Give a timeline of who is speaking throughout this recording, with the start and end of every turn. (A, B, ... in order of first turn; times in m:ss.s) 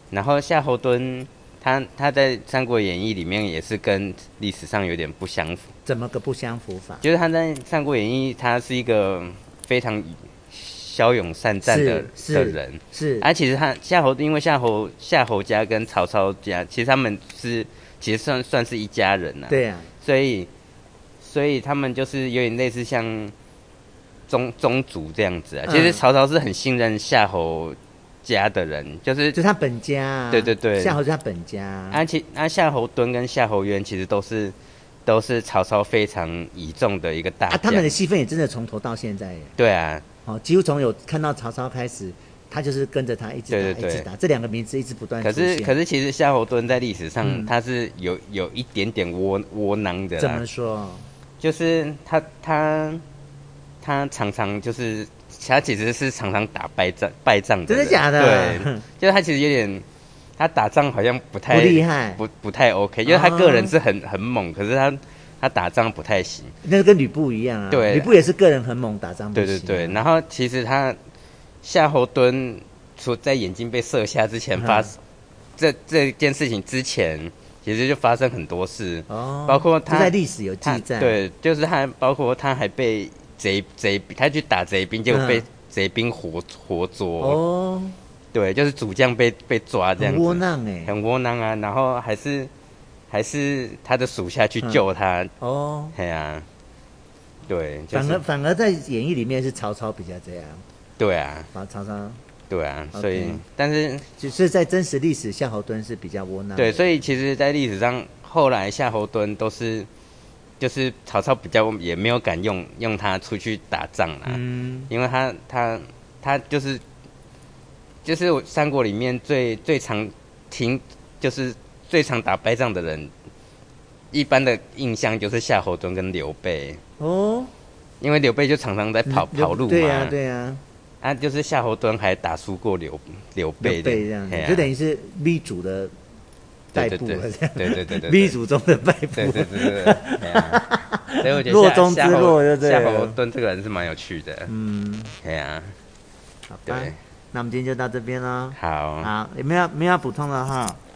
0:00.1-0:05.7 A
0:05.9-0:07.0 B
0:07.0-0:20.5 A
0:11.7-0:13.3 B
0:19.5-0:19.9 B
0:21.2-0:23.3 A
0:24.3-0:29.4 A
0:25.7-0:26.0 B
0:29.3-0:32.0 B
0:30.3-0:31.0 A
0:31.9-0:37.9 A
0:37.5-0:39.5 B
0:39.6-0:40.0 A
0:40.3-0:45.7 B
0:43.5-0:44.1 A
0:45.2-0:50.4 A
0:47.2-0:47.5 B
0:50.2-0:51.1 B
0:51.4-0:53.0 A
0:53.8-0:59.9 A
0:57.7-0:58.8 B
1:00.4-1:06.5 A
1:01.5-1:02.2 B
1:03.0-1:03.8 B
1:06.6-1:10.0 B
1:07.7-1:08.3 A
1:09.4-1:11.0 A
1:11.6-1:15.0 A
1:14.6-1:14.9 B
1:15.6-1:27.4 A
1:19.1-1:21.2 B
1:25.1-1:25.4 B
1:27.2-1:28.0 B
1:28.3-1:32.5 A
1:30.0-1:30.9 B
1:33.1-1:35.3 A
1:35.4-1:36.0 B
1:36.0-1:36.5 A
1:37.5-1:38.2 A
1:37.9-1:40.6 B
1:41.0-1:41.5 A
1:41.5-1:42.2 B
1:42.5-1:44.1 A
1:42.9-1:43.4 B
1:44.2-1:47.0 B
1:46.6-1:49.9 A
1:50.6-1:56.8 A
1:54.3-1:54.9 B
1:58.0-2:03.1 A
2:04.1-2:06.8 A
2:07.0-2:07.5 B
2:08.0-2:10.1 A
2:09.1-2:10.6 B
2:11.0-2:14.7 A
2:13.6-2:15.9 B
2:16.7-2:18.4 A
2:16.7-2:23.2 B
2:19.2-2:20.6 A
2:21.2-2:24.5 A
2:24.5-2:25.2 B
2:25.2-2:25.7 A
2:26.5-2:30.8 B
2:26.7-2:27.0 A
2:28.6-2:29.1 A